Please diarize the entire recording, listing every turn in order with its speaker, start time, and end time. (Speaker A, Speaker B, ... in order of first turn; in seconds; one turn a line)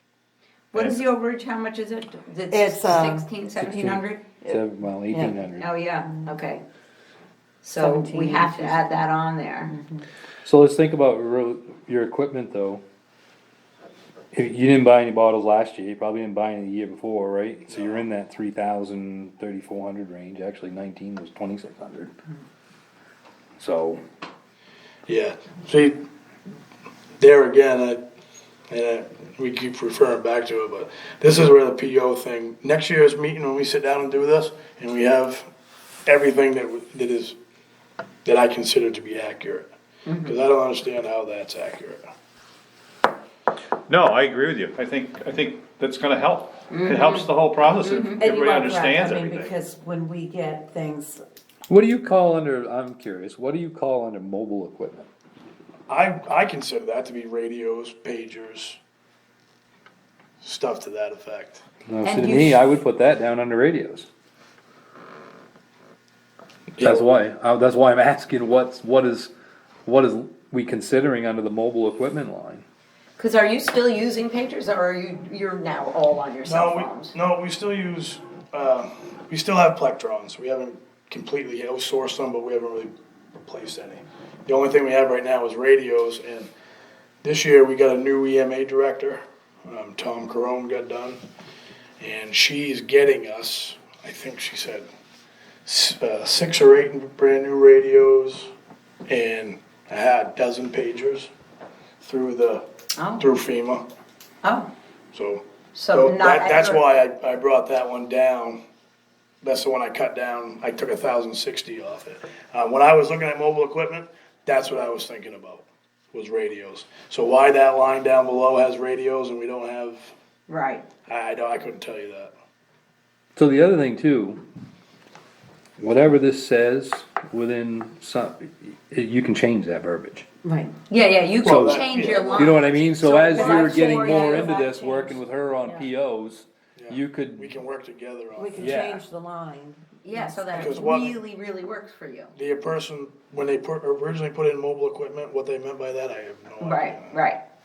Speaker A: 0.7-4.3
Speaker B: 2.5-3.3
Speaker C: 3.5-5.7
Speaker B: 4.4-5.4
Speaker A: 5.6-6.6
Speaker A: 7.6-9.7
Speaker B: 7.8-8.8
Speaker B: 9.7-10.0
Speaker C: 10.4-12.8
Speaker C: 14.3-22.1
Speaker D: 17.7-18.0
Speaker C: 23.6-24.0
Speaker D: 25.1-26.0
Speaker D: 27.2-28.0
Speaker D: 28.7-35.5
Speaker D: 36.0-37.4
Speaker D: 38.2-39.7
Speaker A: 40.0-40.4
Speaker D: 40.2-42.0
Speaker E: 43.9-49.5
Speaker A: 46.7-47.3
Speaker A: 47.8-48.2
Speaker B: 48.2-51.2
Speaker C: 51.7-55.1
Speaker D: 55.9-58.8
Speaker D: 60.4-61.6
Speaker C: 61.9-64.1
Speaker A: 62.0-62.6
Speaker C: 66.8-69.3
Speaker C: 69.8-72.6
Speaker A: 73.2-77.1
Speaker D: 76.4-86.5
Speaker D: 87.2-91.2
Speaker D: 92.0-94.8
Speaker D: 95.6-98.5
Speaker D: 99.1-101.3
Speaker D: 102.0-102.7
Speaker A: 103.0-103.3
Speaker D: 103.2-103.8
Speaker A: 104.4-104.7
Speaker D: 105.1-108.6
Speaker A: 105.7-106.8
Speaker D: 109.4-120.1
Speaker A: 120.5-120.8
Speaker D: 121.0-122.3
Speaker C: 123.3-124.4
Speaker C: 125.8-130.2
Speaker A: 130.5-135.2
Speaker D: 131.4-132.4
Speaker C: 131.4-137.5
Speaker D: 136.8-138.7
Speaker B: 138.3-140.8
Speaker C: 138.6-139.0
Speaker A: 140.0-142.3
Speaker D: 140.6-141.1
Speaker D: 142.3-147.1
Speaker A: 146.6-147.4